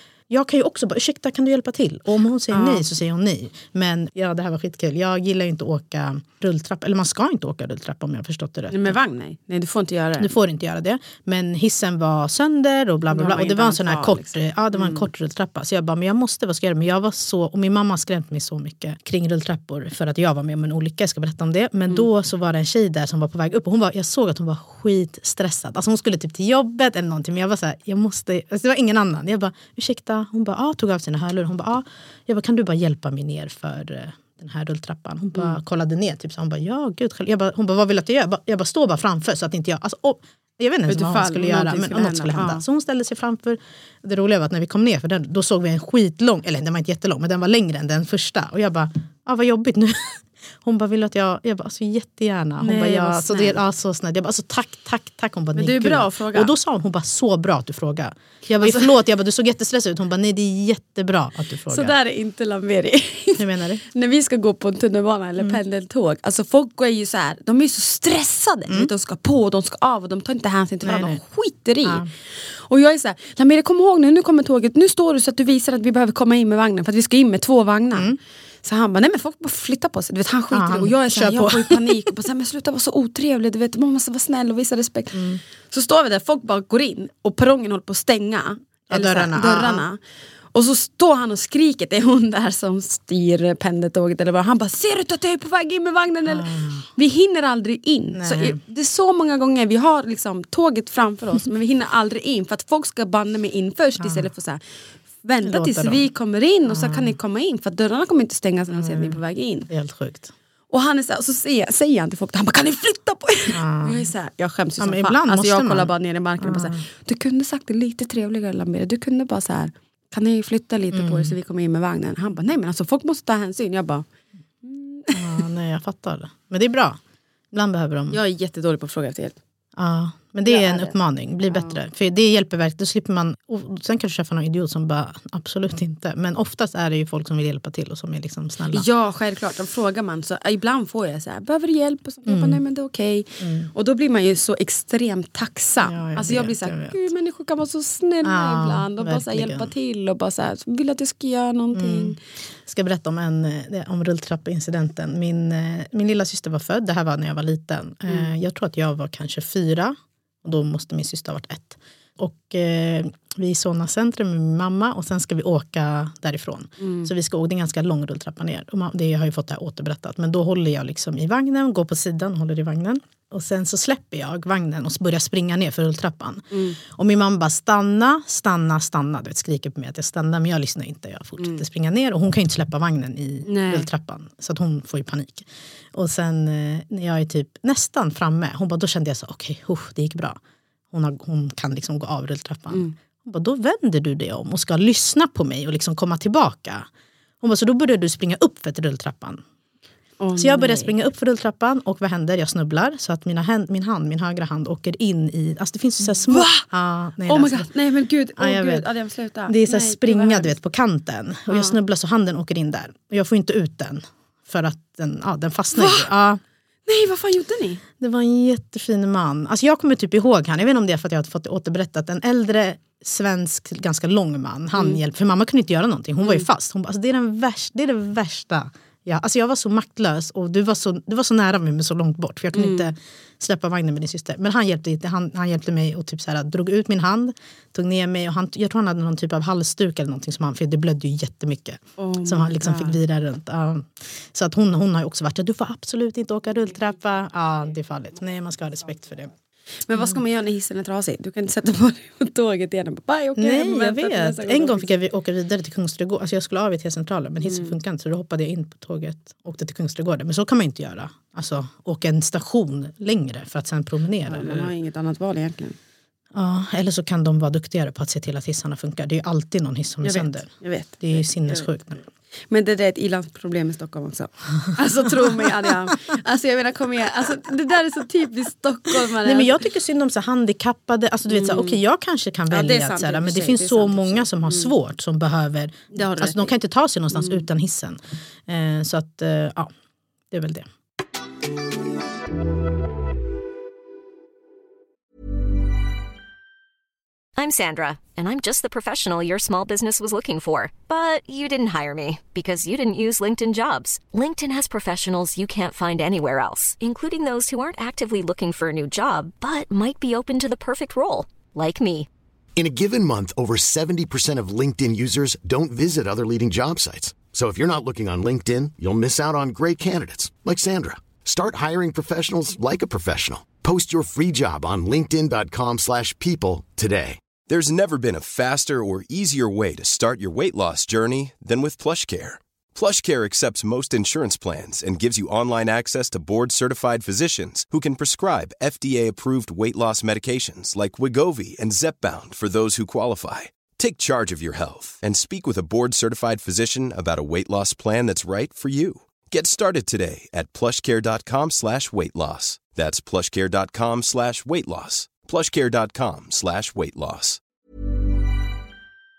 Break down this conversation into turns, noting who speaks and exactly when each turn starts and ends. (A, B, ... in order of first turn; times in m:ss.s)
0:00.3-0:09.0 A
0:02.5-0:02.8 B
0:08.7-0:10.3 B
0:10.2-1:02.0 A
0:13.1-0:15.1 B
0:40.9-0:42.6 B
0:52.6-0:53.6 B
0:55.6-0:56.5 B
0:58.6-0:58.9 B
1:01.7-1:30.0 B
1:03.4-1:03.8 A
1:10.8-1:11.2 A
1:11.8-1:12.1 A
1:17.9-1:18.2 A
1:20.5-1:22.0 A
1:25.1-1:25.4 A
1:28.9-1:29.8 A
1:30.5-1:44.6 B
1:36.3-1:36.9 A
1:38.2-1:38.6 A
1:44.0-1:44.3 A
1:45.2-1:49.7 B
1:45.4-1:46.0 A
1:46.7-1:47.2 A
1:48.8-1:50.3 A
1:50.7-2:04.0 B
1:53.5-1:54.1 A
1:54.8-1:56.8 A
2:00.9-2:01.4 A
2:04.6-2:05.4 B
2:05.1-2:07.0 A
2:07.5-2:08.2 A
2:08.1-2:09.4 B
2:09.8-2:18.9 A
2:10.4-2:11.0 B
2:11.5-2:11.8 B
2:18.7-2:32.2 B
2:22.3-2:22.6 A
2:23.4-2:23.7 A
2:25.8-2:27.0 A
2:28.2-2:29.7 A
2:31.7-3:10.4 A
2:46.8-2:47.1 B
2:56.5-2:56.8 B
3:03.5-3:03.9 B
3:10.9-3:16.9 A
3:17.4-3:19.4 A
3:20.2-3:20.9 B
3:20.4-3:27.7 A
3:26.2-3:26.7 B
3:27.3-3:30.5 B
3:28.4-3:28.9 A
3:29.5-3:36.4 A
3:31.5-3:31.8 B
3:35.7-3:36.1 B
3:36.9-3:37.8 B
3:38.0-4:09.3 A
3:52.5-3:52.9 B
4:02.0-4:03.0 B
4:09.9-4:14.9 B
4:13.4-4:24.7 A
4:17.4-4:17.8 B
4:24.3-4:25.8 B
4:26.3-4:32.0 A
4:30.0-4:31.7 B
4:32.5-4:39.6 B
4:39.2-4:49.7 A
4:41.3-4:41.8 B
4:42.5-4:44.7 B
4:45.9-4:46.5 B
4:47.1-4:47.4 B
4:50.3-4:50.7 A
4:57.4-5:12.1 C
5:12.6-5:27.2 D
5:27.4-5:57.4 E